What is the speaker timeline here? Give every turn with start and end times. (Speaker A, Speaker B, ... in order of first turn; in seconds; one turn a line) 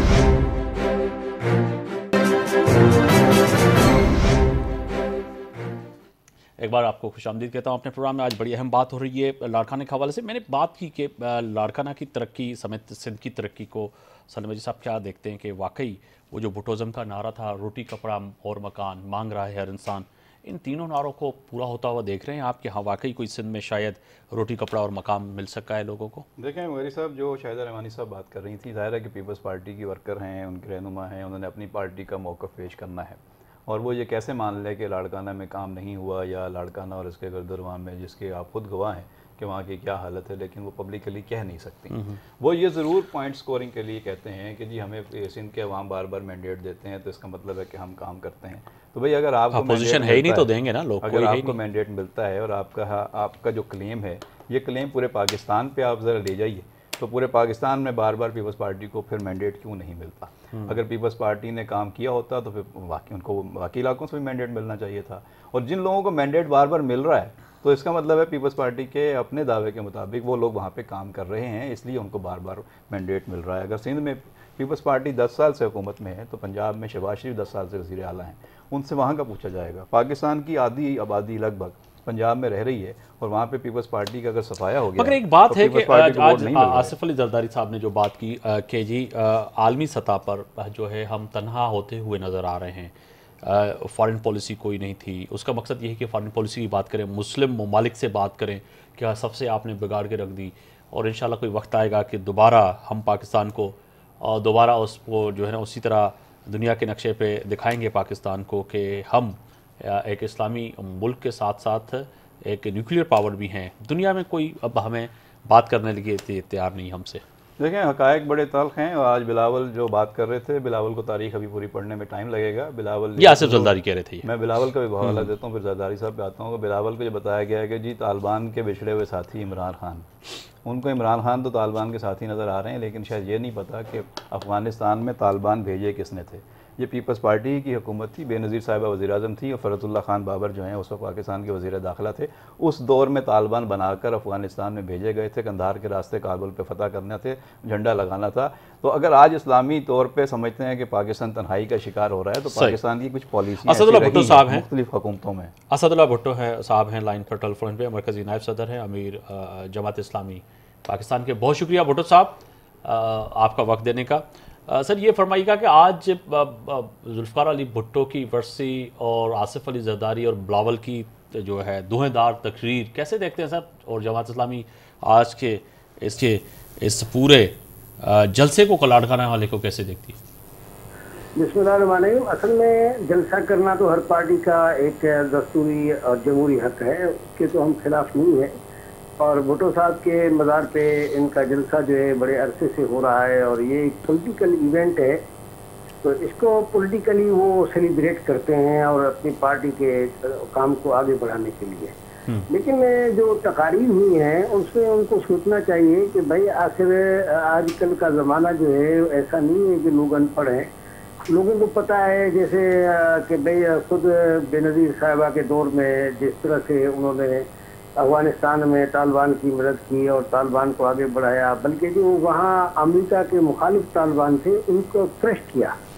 Speaker A: 6.6-26.3
Speaker B: 26.4-50.5
Speaker A: 41.9-42.2
Speaker A: 49.5-51.6
Speaker B: 51.0-87.0
Speaker A: 60.5-60.8
Speaker A: 85.0-117.2
Speaker B: 117.6-130.1
Speaker A: 123.2-124.3
Speaker A: 125.0-125.3
Speaker B: 130.6-155.5
Speaker A: 152.5-152.8
Speaker A: 153.6-154.7
Speaker A: 155.7-180.2
Speaker C: 181.4-188.6
Speaker C: 189.2-195.2
Speaker C: 196.0-201.9
Speaker C: 202.5-210.7
Speaker C: 211.3-217.5
Speaker C: 218.0-225.8